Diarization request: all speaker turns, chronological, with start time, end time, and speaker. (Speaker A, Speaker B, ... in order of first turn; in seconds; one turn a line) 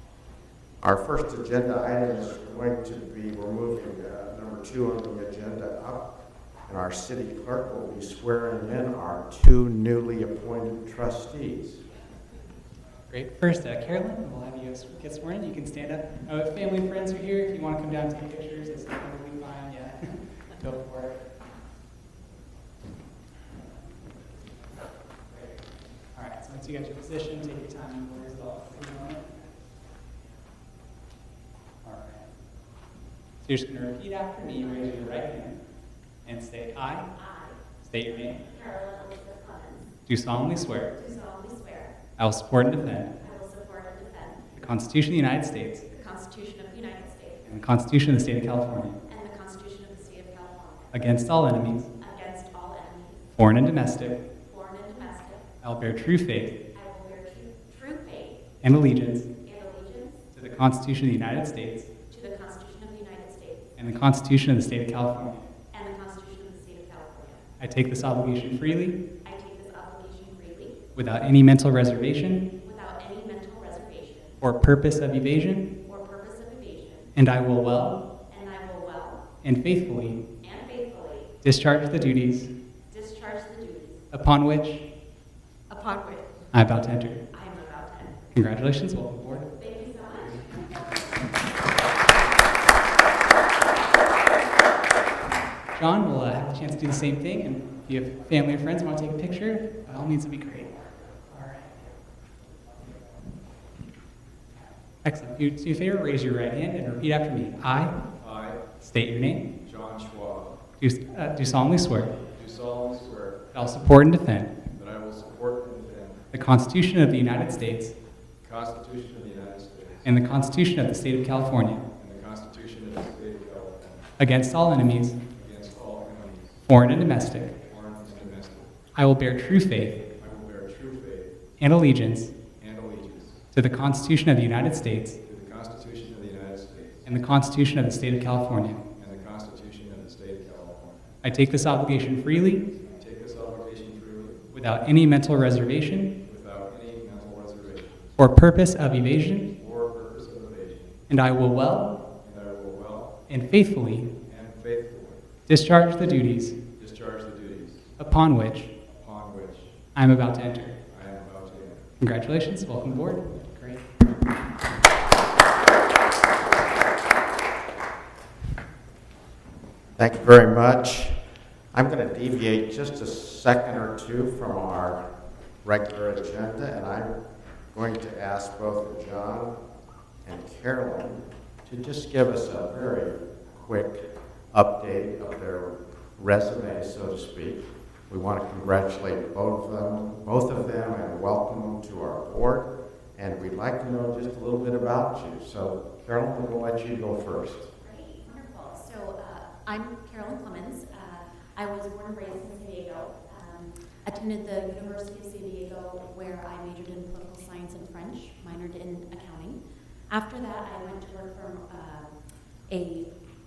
Speaker A: 0.8-6.0
Speaker A: 6.7-11.8
Speaker B: 13.1-21.2
Speaker B: 26.1-29.3
Speaker B: 31.8-32.3
Speaker B: 33.4-35.6
Speaker B: 36.2-37.1
Speaker C: 37.1-37.6
Speaker B: 37.8-38.4
Speaker C: 38.4-39.9
Speaker B: 40.1-40.9
Speaker C: 40.9-42.0
Speaker B: 42.2-43.1
Speaker C: 43.2-44.5
Speaker B: 44.5-45.9
Speaker C: 45.9-47.5
Speaker B: 47.5-49.0
Speaker C: 49.1-51.1
Speaker B: 50.9-51.9
Speaker C: 52.0-53.2
Speaker B: 53.4-54.2
Speaker C: 54.4-55.5
Speaker B: 55.6-56.6
Speaker C: 56.7-58.5
Speaker B: 58.6-59.3
Speaker C: 59.4-60.2
Speaker B: 60.3-61.9
Speaker C: 62.1-63.7
Speaker B: 63.8-65.4
Speaker C: 65.7-67.5
Speaker B: 67.6-69.0
Speaker C: 69.2-70.8
Speaker B: 70.9-72.5
Speaker C: 72.6-74.4
Speaker B: 74.4-75.7
Speaker C: 75.8-77.1
Speaker B: 77.2-78.0
Speaker C: 78.3-79.2
Speaker B: 79.4-80.2
Speaker C: 80.4-81.3
Speaker B: 81.4-82.5
Speaker C: 82.9-84.0
Speaker B: 84.1-84.9
Speaker C: 85.7-86.5
Speaker B: 86.5-87.2
Speaker C: 87.3-88.2
Speaker B: 88.3-89.5
Speaker C: 89.5-91.2
Speaker B: 95.7-100.7
Speaker B: 101.3-101.6
Speaker B: 105.0-108.0
Speaker D: 108.2-108.6
Speaker B: 108.8-109.5
Speaker D: 109.6-110.6
Speaker B: 110.8-112.2
Speaker D: 112.3-113.5
Speaker B: 113.5-114.5
Speaker D: 114.7-116.2
Speaker B: 116.3-117.9
Speaker D: 118.4-120.1
Speaker B: 120.0-121.8
Speaker D: 122.0-124.1
Speaker B: 124.2-125.2
Speaker D: 125.3-126.6
Speaker B: 126.7-127.5
Speaker D: 127.6-128.7
Speaker B: 128.9-130.0
Speaker D: 130.2-131.3
Speaker B: 131.6-132.3
Speaker D: 132.6-133.4
Speaker B: 133.5-135.2
Speaker D: 135.2-137.1
Speaker B: 137.1-138.8
Speaker D: 138.9-141.2
Speaker B: 141.2-142.6
Speaker D: 142.7-144.4
Speaker B: 144.5-146.1
Speaker D: 146.2-148.2
Speaker B: 148.2-149.5
Speaker D: 149.5-151.0
Speaker B: 151.1-152.0
Speaker D: 152.2-153.2
Speaker B: 153.3-154.1
Speaker D: 154.2-155.2
Speaker B: 155.5-156.6
Speaker D: 156.8-157.9
Speaker B: 158.0-158.7
Speaker D: 159.0-159.7
Speaker B: 159.9-160.8
Speaker D: 160.9-161.9
Speaker B: 162.0-163.8
Speaker A: 170.0-171.2
Speaker A: 171.7-175.0
Speaker A: 175.6-177.1
Speaker A: 177.7-179.6
Speaker A: 180.2-197.7
Speaker C: 197.8-212.1
Speaker C: 212.7-213.1